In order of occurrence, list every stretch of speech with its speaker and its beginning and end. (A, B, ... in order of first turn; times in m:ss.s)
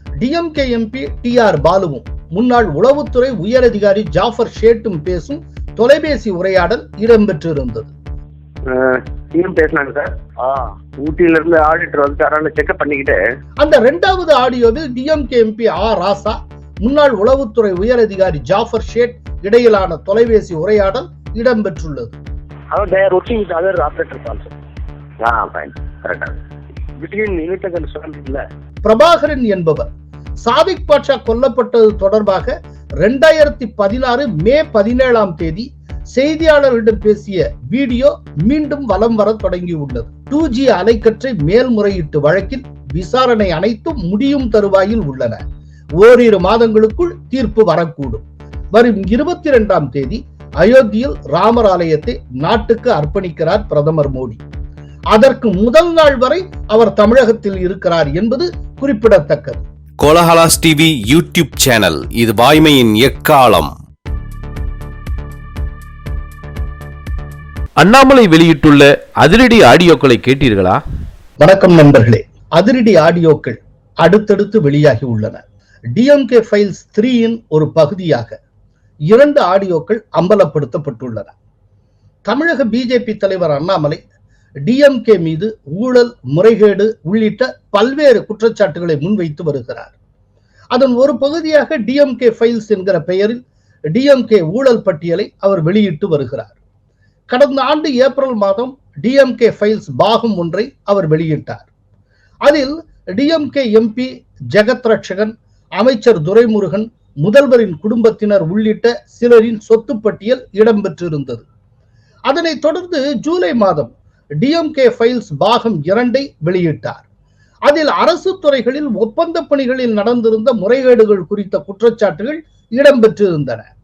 0:00.2-0:07.9 A
0:08.7-0:13.2 B
0:13.6-0:22.2 A
0:22.7-0:24.5 C
0:25.2-0:26.4 B
0:27.0-0:28.4 C
0:28.8-0:29.9 A
0:30.4-0:45.4 A
0:46.0-0:54.4 A
0:55.1-0:59.6 A
1:00.0-1:03.7 D
1:07.8-1:10.8 E
1:11.4-1:15.4 A
1:16.0-1:18.3 A
1:19.1-1:21.3 A
1:22.2-1:24.0 A
1:24.6-1:29.9 A
1:30.7-1:33.4 A
1:33.9-1:36.6 A
1:37.3-1:41.7 A
1:42.4-1:51.4 A
1:52.3-1:57.0 A
1:57.7-2:03.7 A